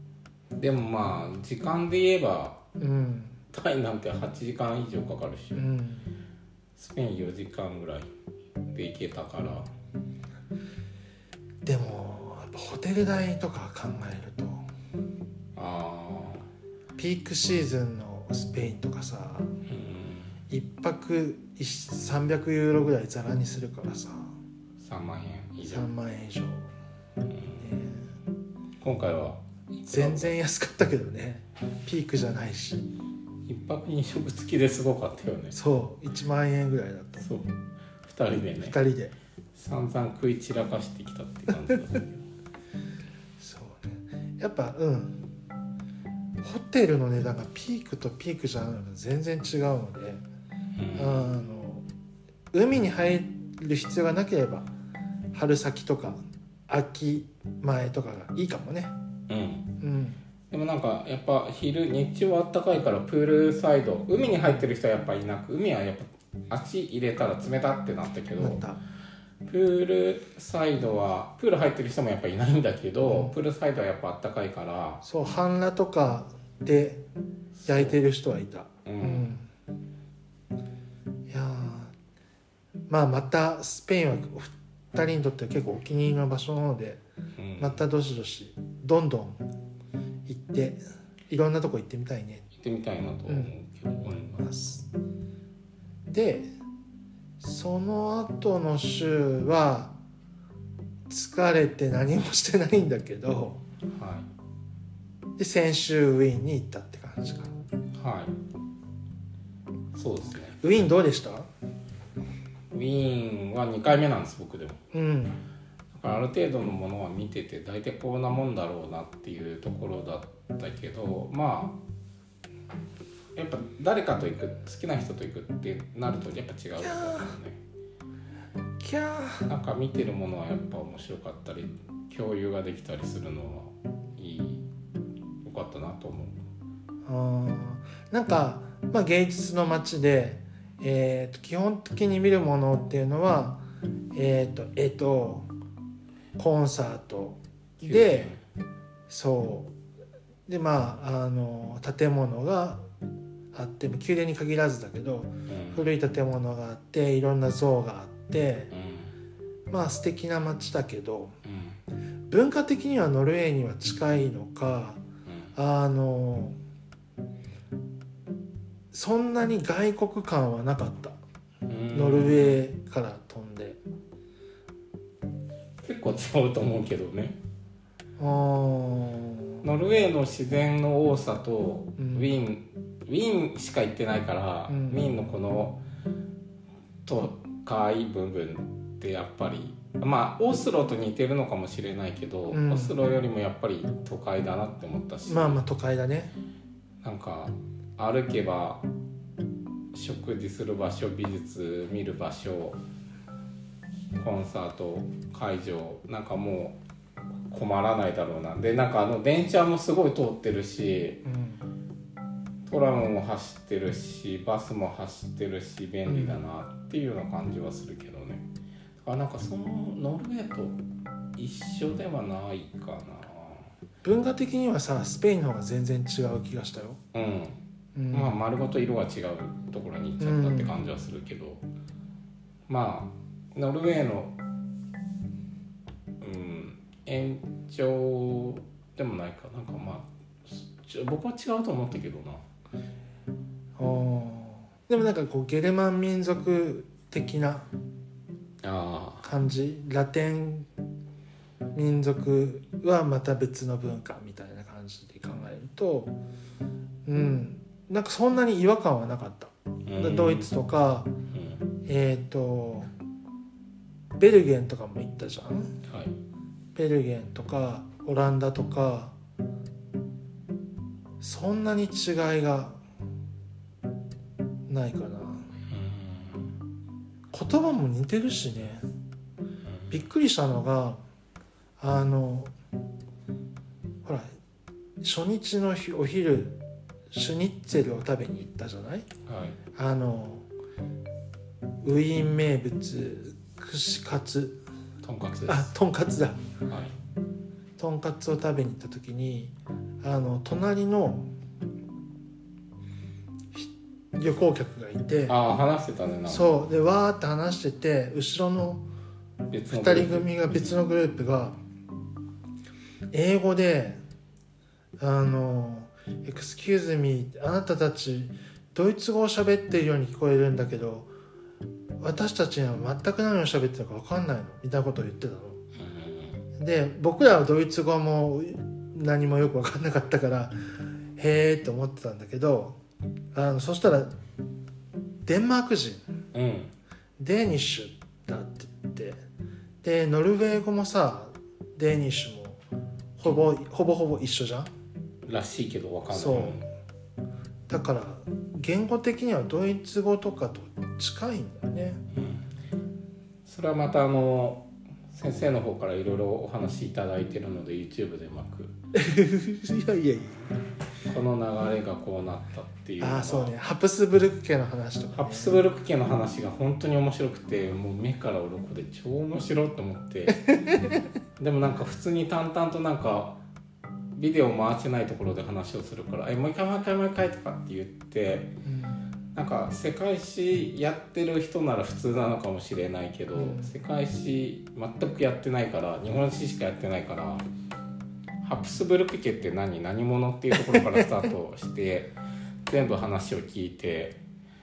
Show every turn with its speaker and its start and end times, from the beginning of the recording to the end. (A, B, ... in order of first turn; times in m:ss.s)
0:00.5-0:02.6 A
0:02.8-0:03.4 B
0:03.5-0:05.6 A
0:05.5-0:06.1 B
0:06.8-0:08.1 A
0:08.7-0:09.7 A
0:11.6-0:14.6 B
0:15.5-0:16.5 A
0:17.0-0:19.6 B
0:19.6-0:20.4 A
0:20.5-0:24.4 B
0:24.8-0:25.9 A
0:25.6-0:26.7 B
0:27.2-0:27.6 A
0:27.6-0:28.1 B
0:28.8-0:30.3 A
0:29.9-0:32.9 B
0:33.4-0:35.6 A
0:35.5-0:37.3 B
0:37.2-0:38.8 A
0:38.6-0:39.1 B
0:39.5-0:42.2 A
0:43.4-0:45.2 B
0:46.4-0:50.2 B
0:50.8-0:51.3 A
0:50.9-0:51.8 B
0:52.5-0:54.7 B
0:55.3-0:58.9 B
0:59.3-0:59.7 A
0:59.8-1:00.2 B
1:00.5-1:08.6 A
1:08.4-1:08.8 B
1:09.4-1:15.0 A
1:13.0-1:13.3 B
1:15.0-1:17.0 B
1:17.6-1:18.0 A
1:17.7-1:19.5 B
1:18.8-1:19.3 A
1:21.3-1:21.9 B
1:22.9-1:27.0 B
1:27.4-1:27.8 A
1:27.6-1:29.4 B
1:30.3-1:32.4 B
1:32.5-1:34.4 A
1:34.3-1:34.9 B
1:36.1-1:36.5 B
1:37.4-1:39.9 B
1:41.1-1:43.6 B
1:43.9-1:44.3 A
1:45.4-1:47.5 B
1:47.9-1:48.4 A
1:49.9-1:50.6 A
1:50.6-1:51.5 B
1:52.7-1:54.8 A
1:54.9-1:55.4 B
1:55.9-2:01.8 A
2:03.3-2:07.6 A
2:06.8-2:07.3 B
2:08.8-2:09.5 B
2:09.5-2:14.6 A
2:15.4-2:16.4 A
2:17.0-2:25.5 B
2:26.4-2:28.3 B
2:27.8-2:28.4 A
2:29.1-2:29.7 B
2:30.5-2:32.8 B
2:33.5-2:38.7 B
2:35.5-2:35.9 A
2:38.7-2:39.1 A
2:39.7-2:41.4 B
2:41.4-2:41.8 A
2:42.3-2:45.0 B
2:45.2-2:45.5 A
2:45.5-2:46.6 B
2:48.9-2:51.2 B
2:51.7-2:52.6 A
2:51.9-2:53.8 B
2:55.8-2:57.4 A
2:58.2-2:59.6 B
2:59.6-3:05.8 A
3:02.0-3:02.3 B
3:04.7-3:05.2 B
3:07.0-3:15.6 A
3:12.5-3:12.9 B
3:15.3-3:16.3 B
3:17.0-3:18.8 A
3:19.9-3:22.8 A
3:24.1-3:26.8 A
3:27.5-3:31.2 A
3:31.2-3:31.6 B
3:32.6-3:38.5 A
3:36.1-3:36.4 B
3:39.0-3:40.8 A
3:41.4-3:43.7 A
3:44.0-3:47.0 B
3:47.1-3:47.6 A
3:47.9-3:48.4 B
3:48.1-3:51.6 A
3:50.2-3:50.7 B
3:52.7-3:54.4 A
3:56.2-4:02.4 A
4:03.8-4:07.7 B
4:08.6-4:09.3 A
4:09.2-4:10.7 B
4:11.7-4:16.1 B
4:17.0-4:21.1 B
4:19.9-4:20.5 A
4:21.3-4:21.6 A
4:21.8-4:22.9 B
4:24.2-4:25.8 B
4:25.8-4:26.1 A
4:26.7-4:29.1 B
4:31.2-4:32.8 B
4:34.7-4:35.5 B
4:35.7-4:36.6 A
4:37.3-4:38.8 B
4:39.6-4:40.0 A
4:39.9-4:41.0 B
4:41.8-4:42.5 B
4:44.0-4:44.3 B
4:45.0-4:46.6 B
4:47.1-4:49.1 B
4:49.2-4:49.6 A
4:49.7-4:50.5 B
4:51.8-4:54.6 B
4:55.0-4:55.7 A
4:55.5-4:56.4 B
4:56.7-4:56.9 A
4:57.8-5:01.3 B
5:03.5-5:05.4 B
5:05.3-5:06.5 A
5:06.3-5:08.8 B
5:09.5-5:10.8 A
5:09.7-5:11.6 B
5:13.1-5:14.0 B
5:15.0-5:21.1 B
5:22.0-5:25.6 B
5:25.7-5:26.4 A
5:26.6-5:30.6 B
5:31.2-5:32.8 B
5:33.3-5:34.1 B
5:35.2-5:36.0 B
5:36.3-5:36.7 A
5:37.2-5:39.2 B
5:39.8-5:42.6 B
5:43.2-5:44.7 B
5:45.2-5:46.7 A
5:46.1-5:46.6 B
5:47.7-5:52.0 B
5:52.1-5:52.5 A
5:53.4-5:58.8 A
5:58.9-6:00.4 B
6:01.1-6:03.5 A
6:03.0-6:05.6 B
6:05.1-6:10.6 A
6:10.4-6:10.9 B
6:11.4-6:13.4 A
6:14.1-6:18.5 A
6:18.6-6:19.0 B
6:19.3-6:27.5 A
6:23.4-6:23.7 B
6:28.4-6:34.2 A
6:30.6-6:31.1 B